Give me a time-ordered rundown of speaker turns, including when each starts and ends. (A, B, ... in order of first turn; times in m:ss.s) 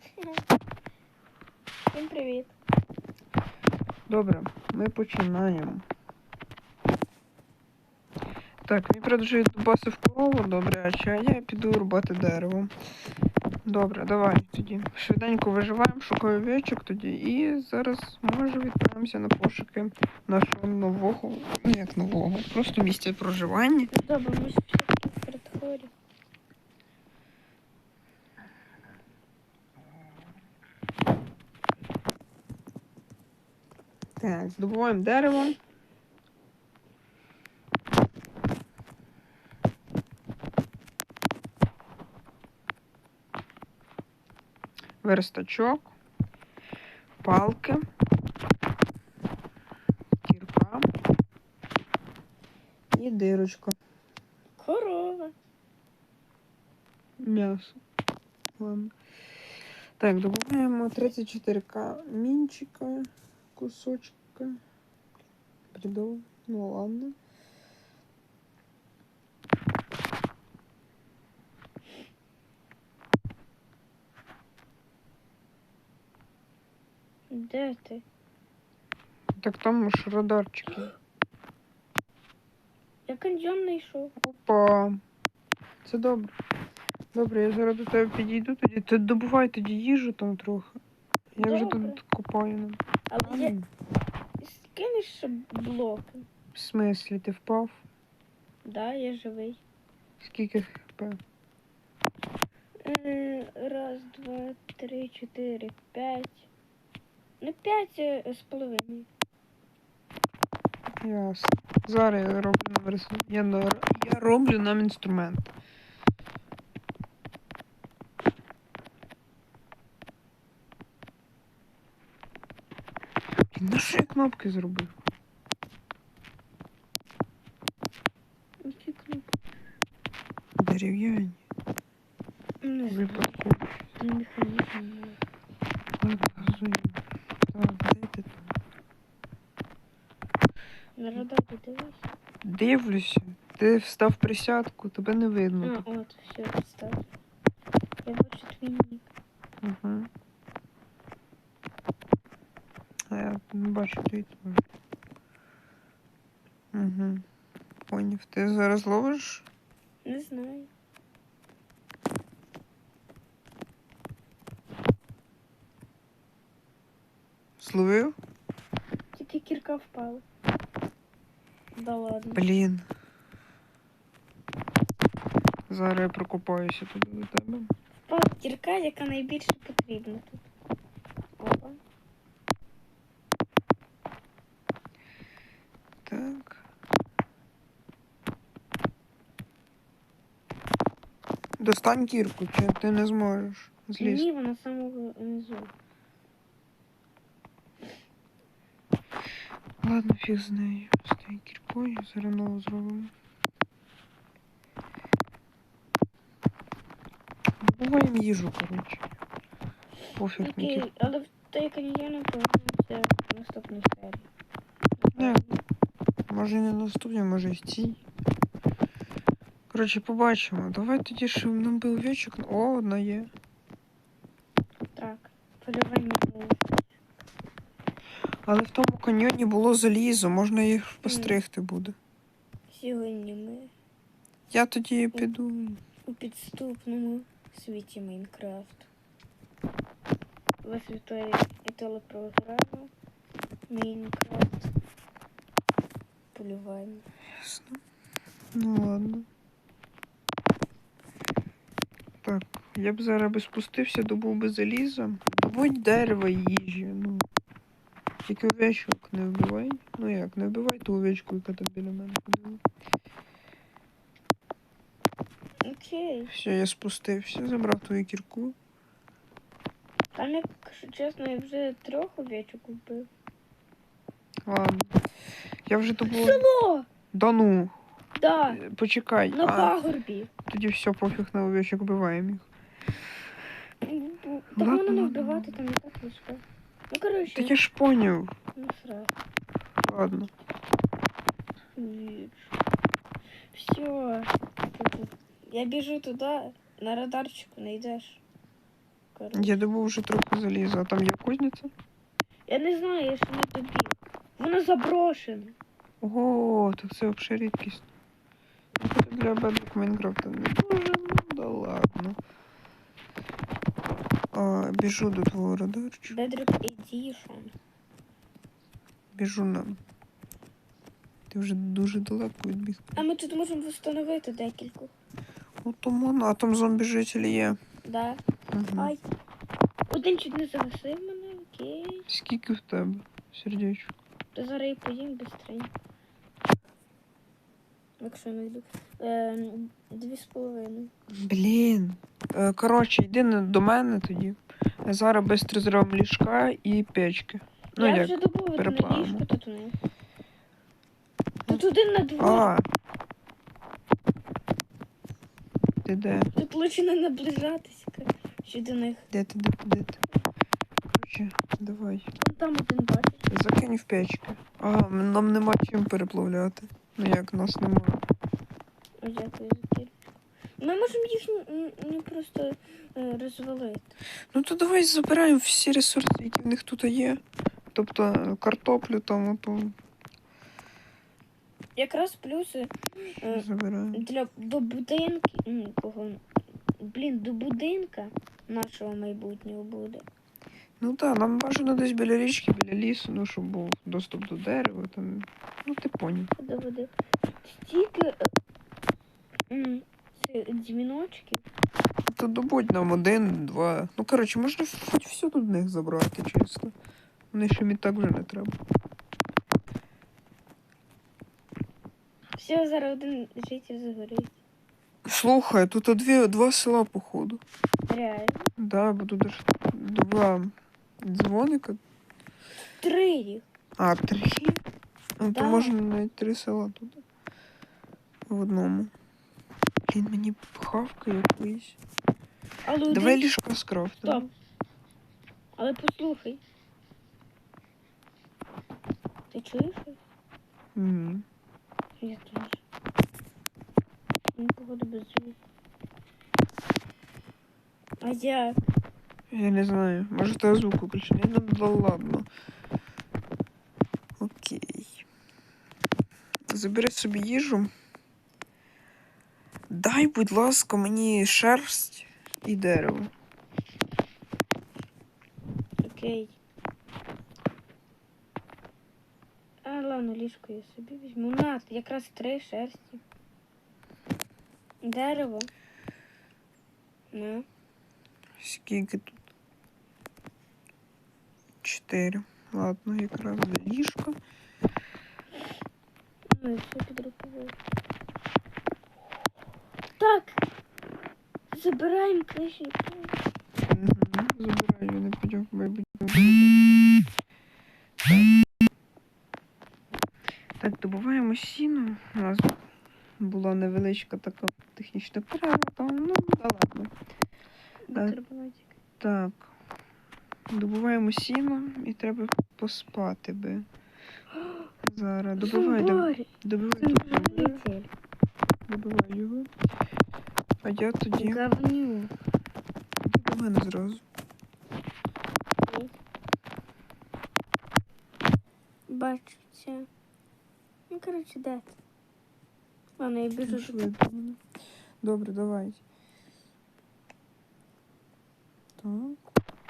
0:01.9-0:02.5 A
0:04.1-0:05.8 B
0:08.6-0:12.7 B
0:13.6-0:23.9 B
0:23.9-0:25.9 A
0:34.2-0:35.6 B
0:45.0-0:45.9 B
0:47.2-0:47.8 B
0:50.2-0:50.9 B
0:52.9-0:53.8 B
0:54.6-0:55.3 A
0:57.2-0:57.8 B
0:58.6-0:58.9 B
1:00.0-1:04.6 B
1:05.7-1:07.2 B
1:17.3-1:18.0 A
1:19.4-1:21.0 B
1:23.1-1:24.1 A
1:24.2-1:25.0 B
1:25.8-1:26.3 B
1:27.1-1:30.8 B
1:31.4-1:33.7 B
1:31.4-1:32.0 A
1:33.1-1:33.5 A
1:34.4-1:36.3 A
1:36.6-1:37.8 B
1:38.6-1:39.6 A
1:40.2-1:41.2 B
1:42.8-1:46.5 A
1:47.4-1:49.1 A
1:51.0-1:55.5 B
2:03.5-2:05.0 B
2:08.6-2:09.3 A
2:10.6-2:11.4 B
2:12.6-2:13.4 A
2:12.9-2:13.6 B
2:14.0-2:15.2 A
2:16.0-2:17.0 B
2:17.5-2:18.5 B
2:21.0-2:22.0 A
2:22.4-2:25.8 B
2:25.6-2:27.0 A
2:28.0-2:29.1 A
2:29.6-2:30.1 B
2:33.1-2:34.6 B
2:36.7-2:37.2 B
2:37.9-2:39.5 B
2:40.0-2:40.7 A
2:47.6-2:48.2 B
2:49.1-2:50.2 A
2:51.8-2:52.4 A
2:52.4-2:52.9 B
2:55.7-2:57.7 B
2:58.1-3:00.4 A
3:01.4-3:01.8 A
3:06.1-3:06.6 B
3:11.6-3:14.3 B
3:14.0-3:15.7 A
3:19.8-3:23.1 B
3:27.6-3:29.0 B
3:30.2-3:31.1 B
3:30.4-3:34.3 A
3:35.0-3:35.6 A
3:35.2-3:35.4 B
3:36.3-3:38.0 B
3:39.7-3:43.3 B
3:45.0-3:46.9 A
3:48.4-3:52.0 B
3:51.0-3:51.4 A
3:52.7-3:53.7 A
3:54.5-3:55.8 B
3:56.1-3:58.9 A
4:00.6-4:02.9 A
4:03.7-4:04.7 A
4:06.3-4:07.0 A
4:07.4-4:07.8 B
4:08.5-4:09.3 B
4:12.2-4:17.2 B
4:18.3-4:22.6 B
4:25.6-4:26.3 A
4:26.3-4:28.6 B
4:30.2-4:33.1 A
4:34.5-4:35.0 B
4:35.7-4:36.4 B
4:36.1-4:36.9 A
4:37.1-4:37.7 B
4:38.2-4:38.6 A
4:38.4-4:39.8 B
4:39.3-4:40.3 A
4:40.5-4:42.5 B
4:43.8-4:47.6 A
4:44.6-4:45.6 B
4:47.3-4:48.3 B
4:48.6-4:49.1 A
4:49.8-4:50.3 B
4:51.8-4:52.5 A
4:53.5-4:58.2 A
4:59.2-4:59.6 A
4:59.3-5:01.7 B
5:02.5-5:05.6 A
5:06.0-5:07.9 B
5:08.8-5:12.2 B
5:14.3-5:16.2 B
5:16.1-5:17.6 A
5:19.1-5:19.8 B
5:21.3-5:23.0 B
5:23.0-5:24.9 A
5:25.6-5:27.6 B
5:27.8-5:28.2 A
5:28.5-5:28.9 B
5:28.8-5:29.0 A
5:29.9-5:32.1 A
5:32.1-5:33.9 B
5:34.3-5:35.7 A
5:38.0-5:40.9 A
5:41.1-5:49.2 B
5:47.8-5:49.7 A
5:51.5-5:52.5 A
5:52.2-5:52.7 B
5:55.8-5:56.3 B
5:56.4-5:59.0 A
5:59.1-6:00.0 B
6:00.9-6:02.1 B
6:02.2-6:03.2 A
6:03.3-6:08.0 B
6:09.0-6:10.0 A
6:10.6-6:13.9 A
6:14.3-6:17.2 B
6:17.7-6:19.7 B
6:21.8-6:26.2 A
6:23.3-6:24.0 B
6:26.8-6:30.0 A
6:30.8-6:36.3 B
6:36.4-6:36.9 A
6:37.4-6:38.3 A
6:39.5-6:41.4 A
6:42.1-6:46.7 B
6:47.3-6:48.6 B
6:52.4-6:54.3 A
6:55.1-6:57.4 B
6:57.9-6:58.5 A
6:58.6-7:01.8 B
7:02.8-7:03.4 A
7:03.8-7:04.6 B
7:05.2-7:07.0 B
7:05.3-7:05.8 A
7:08.3-7:08.9 B
7:09.9-7:11.8 B
7:12.6-7:13.2 A
7:12.9-7:14.3 B
7:15.6-7:16.4 A
7:19.3-7:20.0 A
7:20.8-7:21.2 B
7:22.0-7:22.6 A
7:24.4-7:25.4 A
7:28.0-7:28.6 A
7:29.3-7:32.3 B
7:34.2-7:35.0 B
7:36.5-7:37.7 B
7:39.7-7:43.1 B
7:45.8-7:46.4 A
7:49.6-7:53.0 A
7:54.8-7:55.5 A
7:57.1-7:57.5 A
7:58.4-7:59.2 B
8:01.6-8:04.2 B
8:06.3-8:07.6 A
8:10.0-8:10.4 A
8:11.5-8:13.2 A
8:13.7-8:16.7 B
8:18.0-8:18.3 B
8:20.6-8:22.6 B
8:23.2-8:26.9 B
8:27.9-8:28.7 A
8:29.0-8:29.5 B
8:30.5-8:33.7 B
8:34.8-8:37.6 B
8:35.4-8:36.3 A
8:36.8-8:37.9 A
8:38.7-8:39.5 B
8:40.6-8:41.4 B
8:41.2-8:42.1 A
8:43.0-8:44.0 B
8:45.6-8:45.9 A
8:48.9-8:49.9 A
8:50.9-8:51.7 A
8:53.0-8:53.9 A
8:53.5-8:54.4 B
8:55.0-8:55.8 B
8:58.8-8:59.2 B